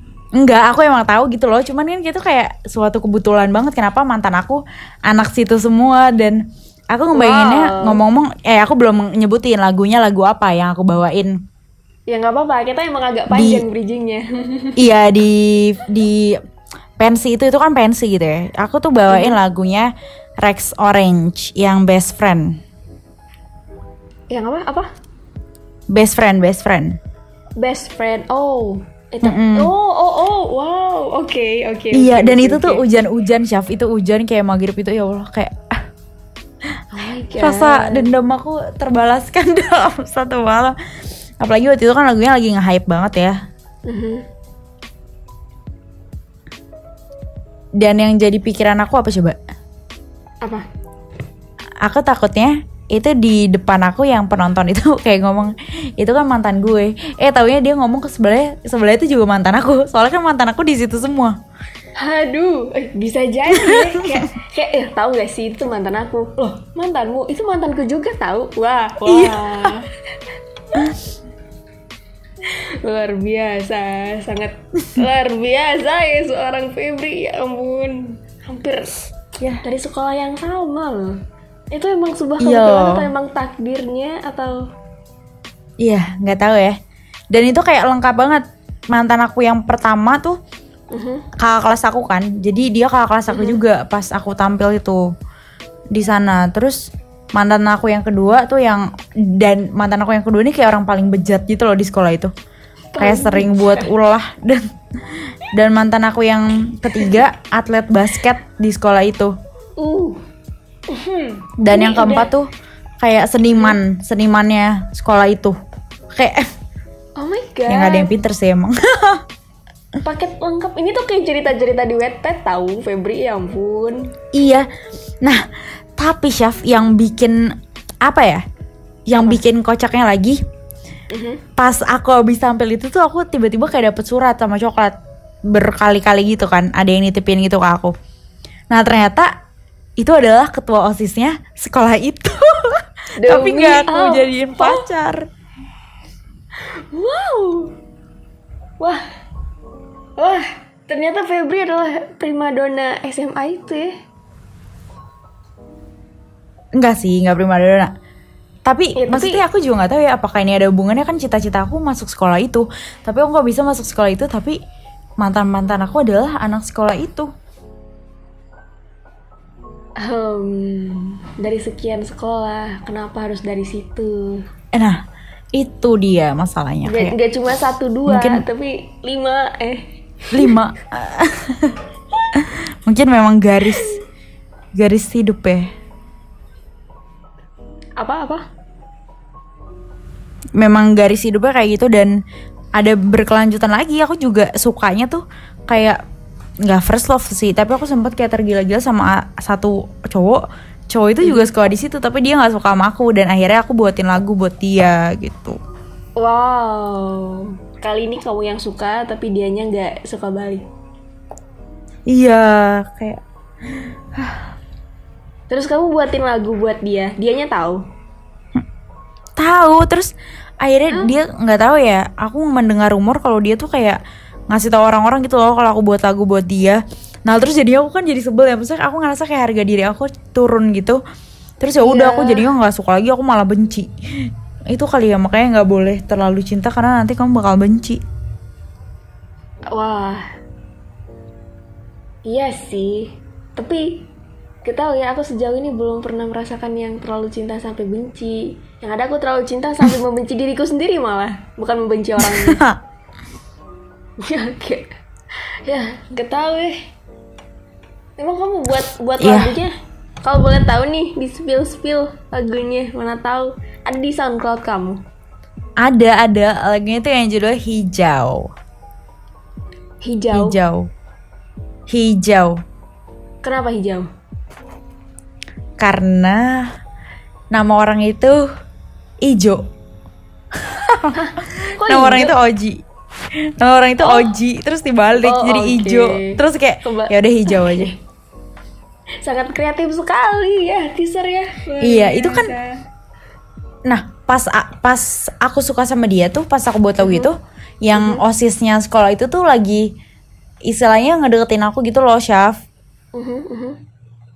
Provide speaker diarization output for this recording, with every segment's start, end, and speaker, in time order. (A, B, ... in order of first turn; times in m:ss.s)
0:00.4-0:11.4 A
0:07.1-0:08.0 B
0:12.1-0:14.8 B
0:13.3-0:13.6 A
0:14.8-0:16.4 A
0:17.0-0:22.6 A
0:19.1-0:19.4 B
0:24.3-0:24.9 B
0:25.9-0:27.0 A
0:27.6-0:32.8 B
0:29.2-0:29.7 A
0:31.9-0:35.8 A
0:36.9-0:38.1 B
0:37.4-0:40.8 A
0:41.4-0:43.4 A
0:43.9-0:44.2 B
0:47.8-0:49.4 A
0:51.8-1:01.4 A
1:02.0-1:09.8 B
1:03.5-1:04.2 A
1:09.0-1:09.8 A
1:12.8-1:18.9 B
1:19.6-1:21.2 B
1:21.7-1:24.6 B
1:22.4-1:23.0 A
1:25.8-1:26.8 A
1:27.3-1:30.4 A
1:30.9-1:31.2 B
1:31.4-1:35.0 A
1:33.3-1:33.6 B
1:35.9-1:42.3 A
1:42.9-1:43.9 B
1:43.0-1:44.6 A
1:45.5-1:49.3 A
1:49.8-1:50.2 B
1:50.9-1:52.3 B
1:51.6-1:52.5 A
1:53.0-1:55.6 A
1:56.1-1:56.5 A
1:57.2-1:58.1 B
1:57.7-1:59.2 A
2:00.0-2:04.1 B
2:04.3-2:04.7 A
2:06.0-2:07.4 A
2:08.0-2:08.4 A
2:09.1-2:10.4 A
2:11.1-2:11.4 B
2:11.6-2:15.0 A
2:15.5-2:17.9 A
2:18.7-2:19.3 A
2:20.0-2:25.3 A
2:23.2-2:24.8 B
2:26.6-2:27.8 B
2:30.2-2:33.9 B
2:36.8-2:37.9 A
2:38.6-2:44.6 A
2:39.0-2:39.4 B
2:45.2-2:47.3 A
2:50.0-2:54.4 B
2:54.7-2:55.0 A
2:55.6-2:57.2 A
2:56.8-3:00.6 B
2:58.1-2:58.4 A
3:00.3-3:01.8 A
3:02.3-3:04.0 A
3:04.8-3:05.7 A
3:08.0-3:08.4 B
3:10.6-3:12.1 A
3:12.8-3:16.0 A
3:16.6-3:25.6 A
3:21.2-3:21.5 B
3:26.2-3:30.6 B
3:32.1-3:33.2 A
3:34.2-3:34.4 A
3:35.5-3:37.8 B
3:39.4-3:51.0 A
3:51.6-3:53.9 A
3:51.8-3:52.5 B
3:54.7-3:58.0 A
3:59.7-4:00.2 B
4:02.3-4:04.1 B
4:04.6-4:12.6 B
4:12.2-4:12.8 A
4:14.2-4:14.9 B
4:15.7-4:16.8 B
4:18.2-4:19.7 B
4:19.2-4:19.6 A
4:20.2-4:25.0 B
4:25.8-4:28.5 A
4:30.0-4:30.6 B
4:30.3-4:30.9 A
4:31.9-4:32.6 A
4:33.4-4:34.1 B
4:35.8-4:36.7 A
4:37.5-4:38.5 A
4:39.2-4:39.7 A
4:40.6-4:42.8 A
4:41.1-4:42.4 B
4:43.4-4:47.9 A
4:44.0-4:44.3 B
4:45.2-4:48.0 B
4:49.2-4:52.8 B
4:51.8-4:52.5 A
4:53.9-4:59.9 A
4:57.0-4:57.3 B
4:57.9-4:58.2 B
5:00.7-5:02.6 A
5:03.2-5:03.8 B